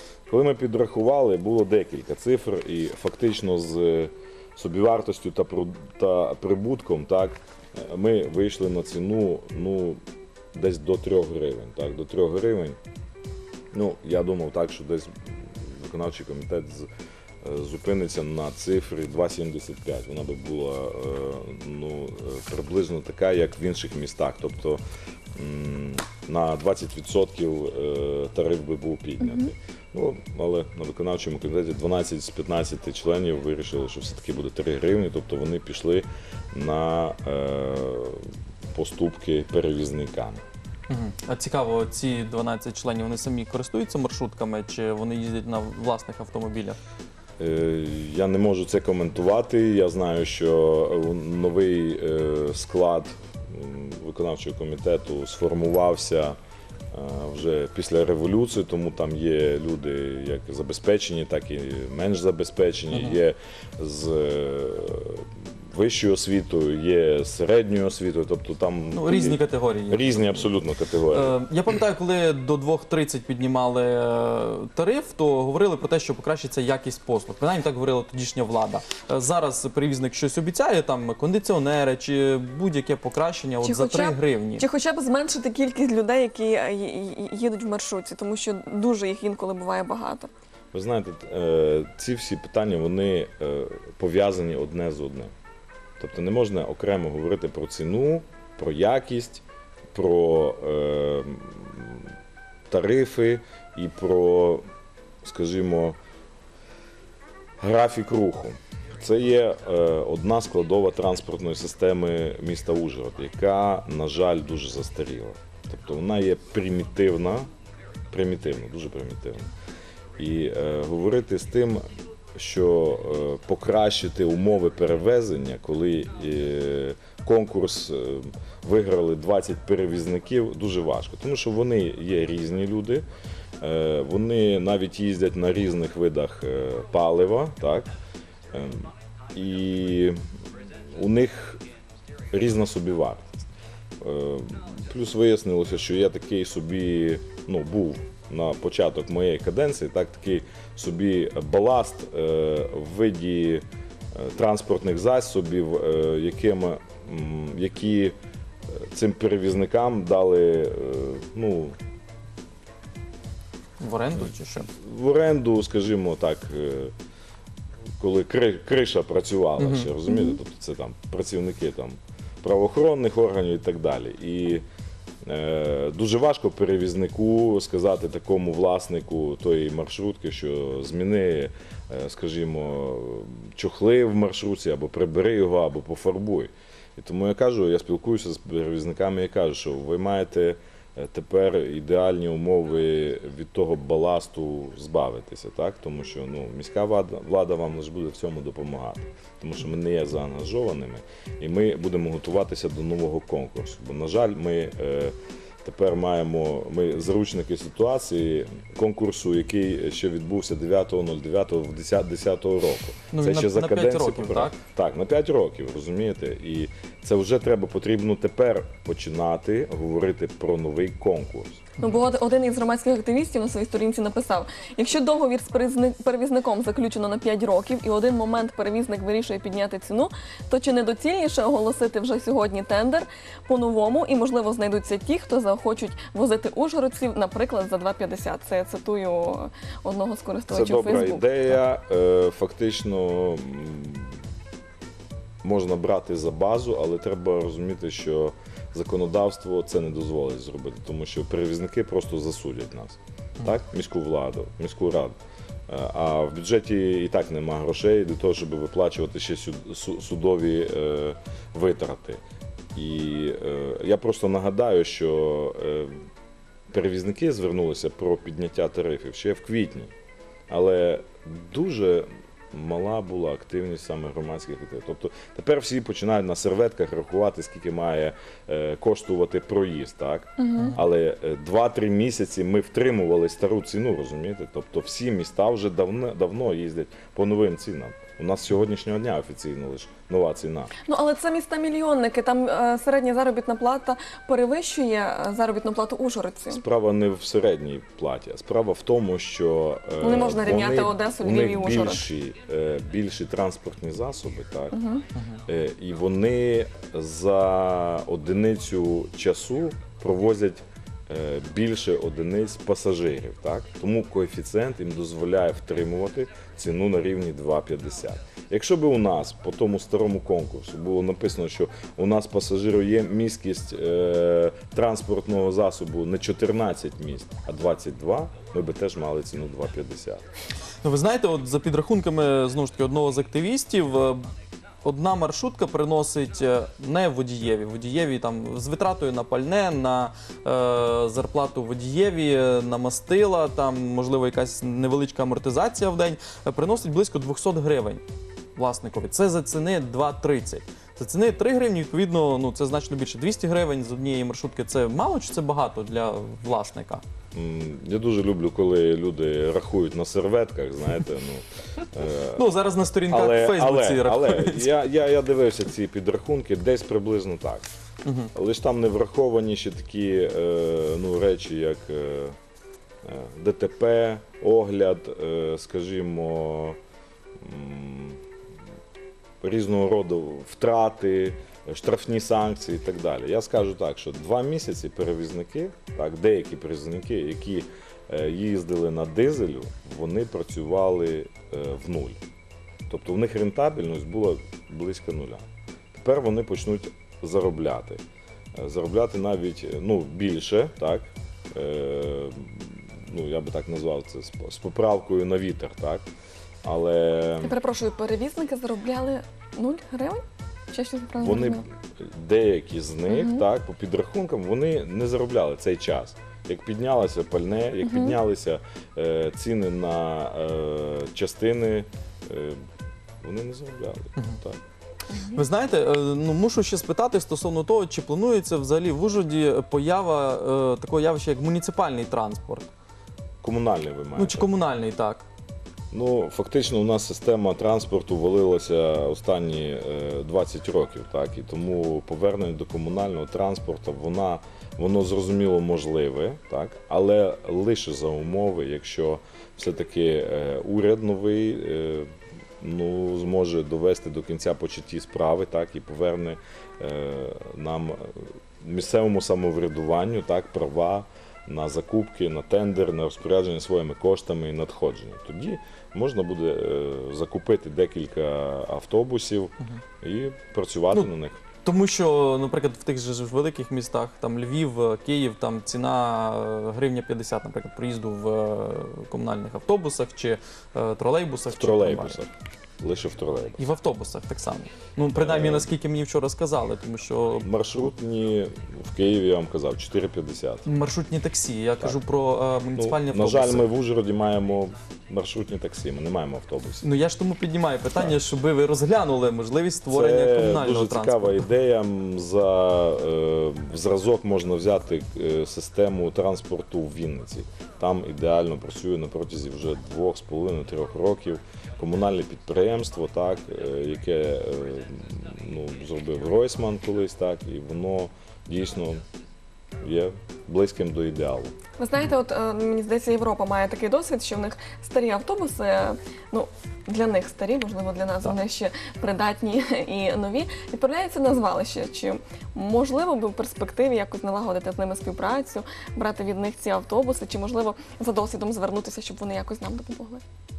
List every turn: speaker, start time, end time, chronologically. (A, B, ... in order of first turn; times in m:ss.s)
0:00.3-0:10.0 A
0:10.5-0:12.8 A
0:13.7-0:16.9 A
0:17.4-0:24.8 A
0:25.4-0:40.4 A
0:29.2-0:29.5 B
0:40.9-0:46.8 C
0:47.4-0:56.4 A
0:56.9-1:11.4 A
1:02.9-1:03.2 C
1:08.9-1:10.5 C
1:11.1-1:24.6 C
1:23.6-1:30.3 B
1:30.7-1:35.3 A
1:36.0-1:39.4 A
1:39.9-1:42.1 A
1:42.7-1:44.6 A
1:45.2-1:46.0 A
1:47.6-1:57.5 A
1:58.1-1:59.5 A
2:00.2-2:01.8 A
2:02.4-2:13.0 A
2:13.6-2:17.9 A
2:18.5-2:20.2 A
2:21.0-2:21.6 A
2:22.3-2:23.4 A
2:24.0-2:38.2 A
2:38.7-2:41.8 A
2:43.8-2:44.7 C
2:44.8-2:46.9 A
2:48.0-2:54.6 A
2:49.6-2:49.9 C
2:50.1-2:50.4 B
2:55.2-3:41.6 A
3:33.1-3:34.6 C
3:41.8-4:01.3 B
4:00.5-4:04.2 A
4:05.4-4:15.2 A
4:15.7-4:22.2 A
4:22.7-4:25.9 A
4:26.7-4:29.9 A
4:30.5-4:50.7 A
4:40.4-4:40.8 B
4:50.9-4:56.6 B
4:56.5-5:04.8 A
5:00.0-5:02.1 B
5:04.7-5:05.0 B
5:05.2-5:05.4 C
5:05.5-5:30.3 A
5:30.8-5:34.2 C
5:34.8-5:48.0 C
5:48.6-5:57.0 C
5:57.3-6:02.5 A
6:02.4-6:04.8 C
6:03.1-6:07.7 A
6:08.0-6:08.3 C
6:08.3-6:12.4 A
6:13.0-6:16.8 A
6:17.4-6:18.2 A
6:19.4-6:32.2 A
6:32.9-6:38.0 A
6:38.6-6:46.0 A
6:46.6-6:47.6 A
6:47.4-6:51.6 B
6:51.2-7:02.6 A
6:53.1-6:53.4 B
6:57.8-6:58.2 B
7:03.2-7:04.6 A
7:05.1-7:05.4 B
7:05.3-7:12.7 C
7:13.4-7:14.5 A
7:14.2-7:15.2 C
7:15.9-7:51.4 A
7:51.6-8:02.2 C
8:01.5-8:03.6 A
8:03.6-8:07.9 C
8:05.2-8:05.7 A
8:07.4-8:10.7 A
8:10.6-8:13.7 C
8:12.8-8:16.9 A
8:16.8-8:21.4 C
8:19.9-8:39.0 A
8:39.8-8:41.5 A
8:41.8-9:00.2 B